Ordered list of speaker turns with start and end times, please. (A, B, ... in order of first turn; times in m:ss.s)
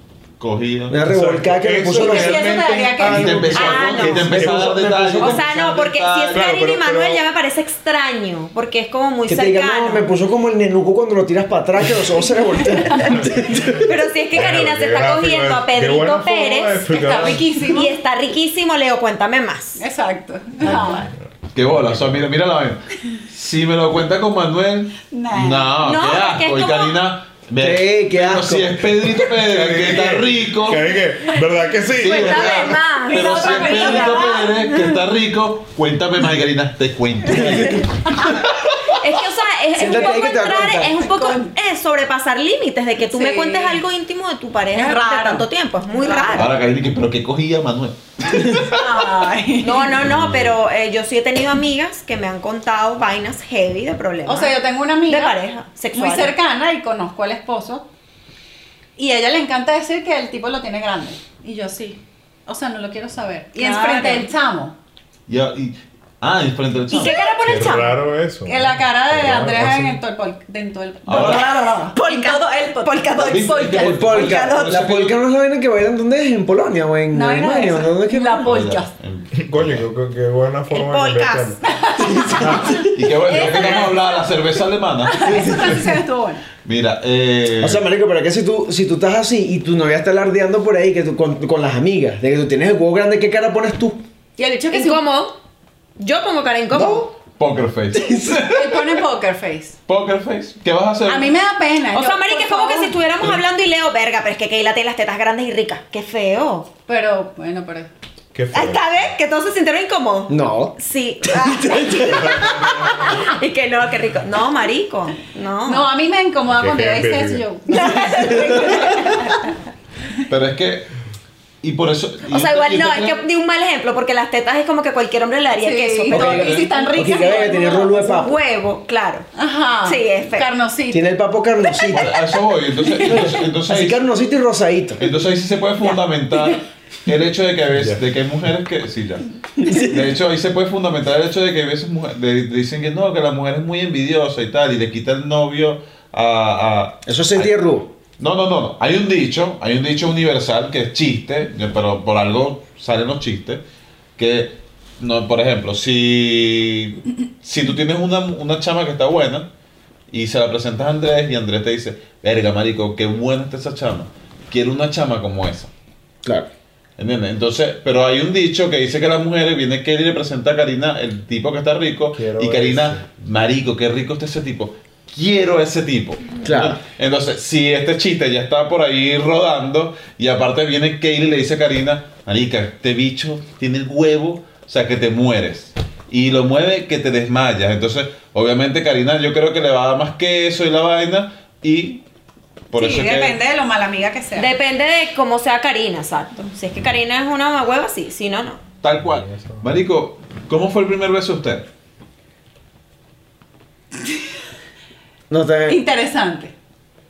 0:00.4-0:01.0 A
0:00.9-0:02.6 B
0:01.0-0:04.9 C
0:01.8-0:03.9 D
0:03.0-0:06.4 A
0:03.5-0:04.3 E
0:04.0-0:05.4 B
0:05.2-0:10.1 E
0:06.3-0:07.2 C
0:09.3-0:13.9 B
0:12.6-0:13.1 D
0:13.1-0:17.6 C
0:13.8-0:19.8 E
0:16.9-0:18.0 D
0:19.8-0:21.1 D
0:20.6-0:21.0 C
0:21.5-0:31.0 A
0:21.7-0:22.2 C
0:25.0-0:25.7 D
0:25.8-0:27.0 E
0:27.6-0:29.2 B
0:29.4-0:32.6 C
0:31.9-0:38.7 A
0:32.0-0:35.0 E
0:32.6-0:34.5 D
0:37.4-0:38.2 B
0:38.9-0:46.5 E
0:39.8-0:40.9 B
0:41.0-0:41.5 D
0:43.1-0:43.8 D
0:44.7-0:46.4 D
0:46.3-0:48.8 A
0:48.6-0:50.0 D
0:49.6-0:56.3 E
0:50.0-0:50.5 A
0:54.2-0:55.4 D
0:56.0-0:57.8 D
0:59.0-1:04.7 D
1:03.6-1:04.3 E
1:05.3-1:07.3 A
1:06.9-1:08.0 E
1:07.4-1:10.0 C
1:08.4-1:14.1 D
1:11.1-1:11.5 A
1:11.1-1:14.8 E
1:13.2-1:15.2 A
1:13.8-1:18.5 B
1:17.1-1:18.9 D
1:18.4-1:19.9 A
1:19.4-1:21.6 C
1:20.7-1:21.6 E
1:21.6-1:24.2 D
1:22.0-1:23.0 B
1:22.4-1:22.8 C
1:22.8-1:26.0 A
1:25.0-1:26.4 D
1:26.6-1:27.8 A
1:27.6-1:34.0 B
1:34.4-1:35.0 D
1:34.7-1:35.4 E
1:36.0-1:37.1 E
1:36.7-1:37.0 B
1:37.4-1:39.0 A
1:37.9-1:38.4 B
1:38.5-1:39.8 D
1:39.9-1:41.4 A
1:41.0-1:43.0 D
1:41.9-1:46.7 E
1:46.9-1:47.9 D
1:48.3-1:49.1 C
1:48.5-1:55.9 E
1:50.3-1:50.8 B
1:51.3-1:52.5 B
1:52.3-1:53.2 C
1:55.6-1:59.4 D
1:56.5-1:57.5 C
1:57.7-1:59.5 E
1:58.3-1:58.8 B
2:00.3-2:00.9 A
2:01.6-2:03.2 A
2:02.3-2:09.3 E
2:05.6-2:08.0 D
2:06.1-2:08.4 B
2:06.1-2:07.0 A
2:09.4-2:11.1 D
2:09.8-2:10.5 E
2:10.9-2:12.1 B
2:11.9-2:14.0 A
2:13.0-2:13.3 D
2:13.0-2:15.1 B
2:15.0-2:27.6 A
2:17.7-2:18.0 C
2:19.6-2:19.9 B
2:27.1-2:27.9 B
2:28.2-2:33.6 A
2:34.2-2:39.5 A
2:40.1-2:45.7 A
2:47.0-3:12.0 A
2:52.2-2:53.0 C
2:56.4-2:56.8 B
3:12.7-3:13.4 A
3:12.7-3:14.5 D
3:14.4-3:18.6 E
3:18.8-3:21.7 A
3:19.0-3:19.8 C
3:25.3-3:25.8 B
3:25.7-3:26.5 D